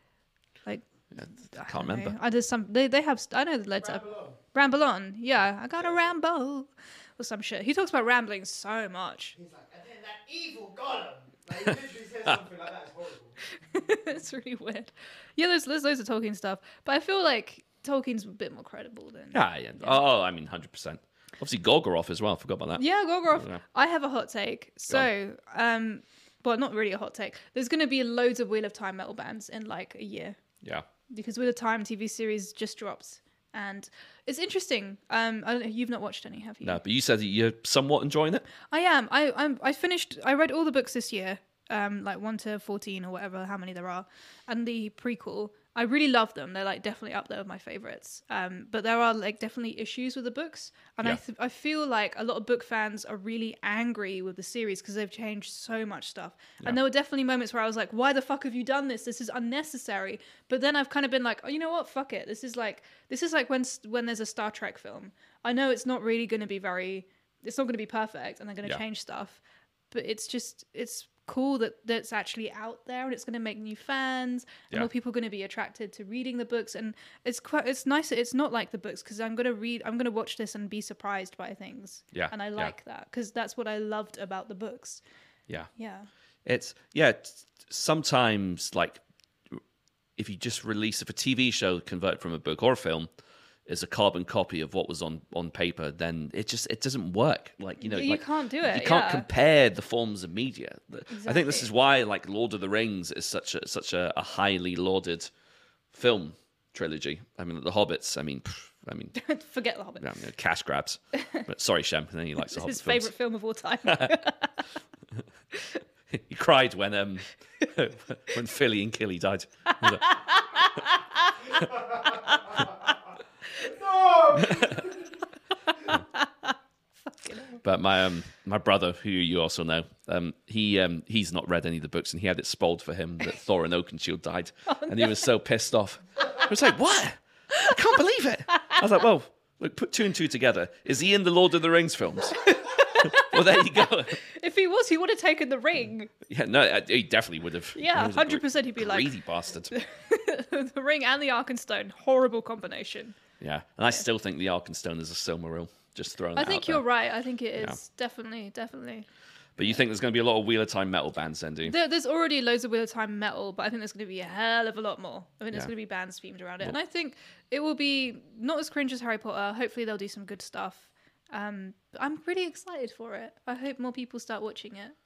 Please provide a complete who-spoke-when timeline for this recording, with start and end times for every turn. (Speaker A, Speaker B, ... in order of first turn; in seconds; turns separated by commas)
Speaker A: 0.6-9.3, Speaker B: 1.1-2.1, Speaker C: 3.8-4.4, Speaker C: 9.3-13.4, Speaker A: 13.5-20.0, Speaker B: 19.3-23.6, Speaker A: 22.8-30.4, Speaker A: 31.1-36.8, Speaker B: 36.6-38.5, Speaker A: 38.7-85.0, Speaker B: 82.1-82.7, Speaker A: 85.7-86.1, Speaker B: 86.4-89.6, Speaker B: 90.2-93.1, Speaker B: 93.7-105.3, Speaker A: 97.8-99.2, Speaker A: 101.1-101.7, Speaker B: 105.9-109.2, Speaker A: 109.1-110.0, Speaker B: 110.0-113.1, Speaker A: 111.2-111.4, Speaker A: 112.4-114.6, Speaker B: 113.9-114.2, Speaker A: 115.5-115.8, Speaker B: 116.1-120.0, Speaker A: 119.7-122.9, Speaker C: 121.7-122.6, Speaker A: 123.5-123.8, Speaker C: 123.6-125.1, Speaker B: 124.3-124.8, Speaker A: 124.4-124.7, Speaker A: 125.7-127.6, Speaker B: 127.6-144.2, Speaker A: 134.7-135.2, Speaker A: 142.4-146.1, Speaker B: 146.3-149.7, Speaker A: 147.7-149.1, Speaker A: 149.7-153.2, Speaker B: 153.4-156.8, Speaker A: 156.3-159.1, Speaker B: 159.6-161.7, Speaker A: 161.6-174.9